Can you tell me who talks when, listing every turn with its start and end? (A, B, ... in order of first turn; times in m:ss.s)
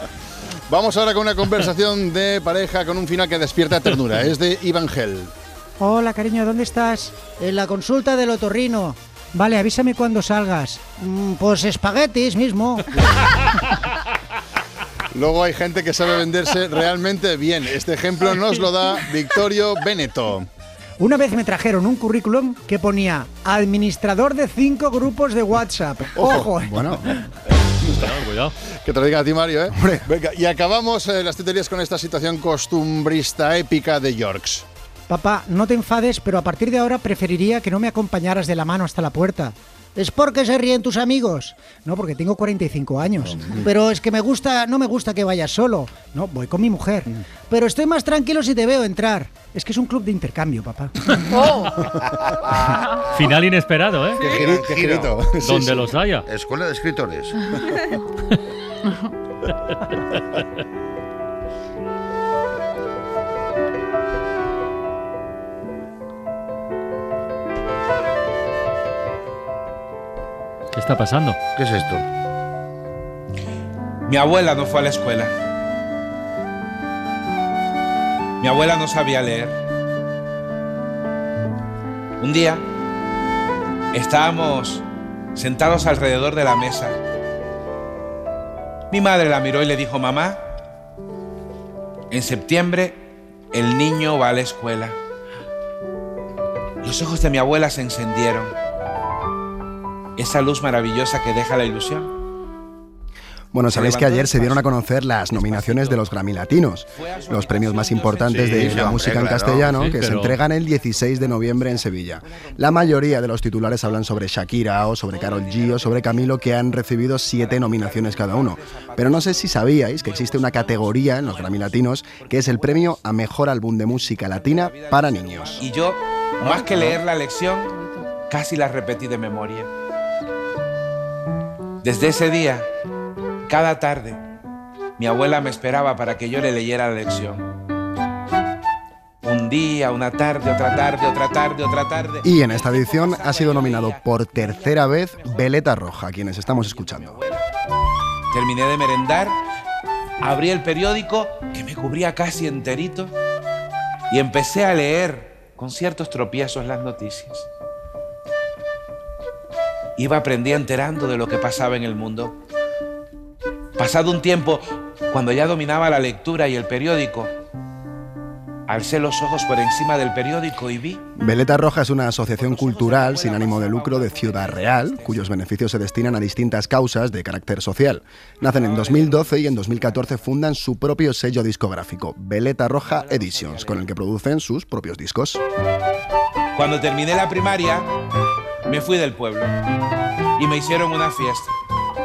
0:00.7-0:05.3 A
0:05.8-0:12.9 B
0:15.1-0:20.5 A
0:21.0-0:26.8 B
0:26.4-0:27.1 C
0:27.9-0:28.5 D
0:28.8-0:34.6 A
0:29.8-0:30.0 C
0:35.1-0:51.2 B
0:53.1-0:54.5 D
0:54.2-0:55.9 A
0:54.2-0:55.2 E
0:55.4-0:56.3 D
0:56.3-0:57.4 E
1:10.7-1:11.4 D
1:11.6-1:12.0 E
1:14.1-1:15.3 F
1:18.4-1:19.6 F
1:22.2-1:22.6 F
1:23.9-1:24.8 F
1:25.4-1:27.0 F
1:28.9-1:30.4 F
1:32.1-1:35.0 F
1:36.8-1:38.5 F
1:40.2-1:42.1 F
1:43.5-2:05.7 C
1:43.7-1:46.3 F
1:46.8-1:49.5 F
1:48.4-1:48.8 A
1:48.4-1:49.7 E
1:49.6-1:50.4 D
1:50.5-1:54.2 F
1:54.8-1:56.6 F
1:57.3-2:03.0 F
2:03.9-2:07.7 F
2:06.4-2:06.9 A
2:08.3-2:09.7 F
2:11.8-2:12.7 F
2:13.5-2:14.2 F
2:15.0-2:17.5 F
2:19.2-2:25.6 F
2:22.2-2:27.2 C
2:26.4-2:27.5 F
2:28.3-2:29.4 F
2:30.2-2:33.1 F
2:34.1-2:37.5 F
2:40.0-2:42.4 F
2:43.8-2:47.3 F
2:48.7-2:51.0 F
2:51.2-3:05.4 C
2:52.3-2:55.3 F
2:58.4-3:00.3 F
3:02.8-3:03.9 F
3:06.6-3:07.9 F
3:08.7-3:09.5 F
3:10.4-3:11.5 F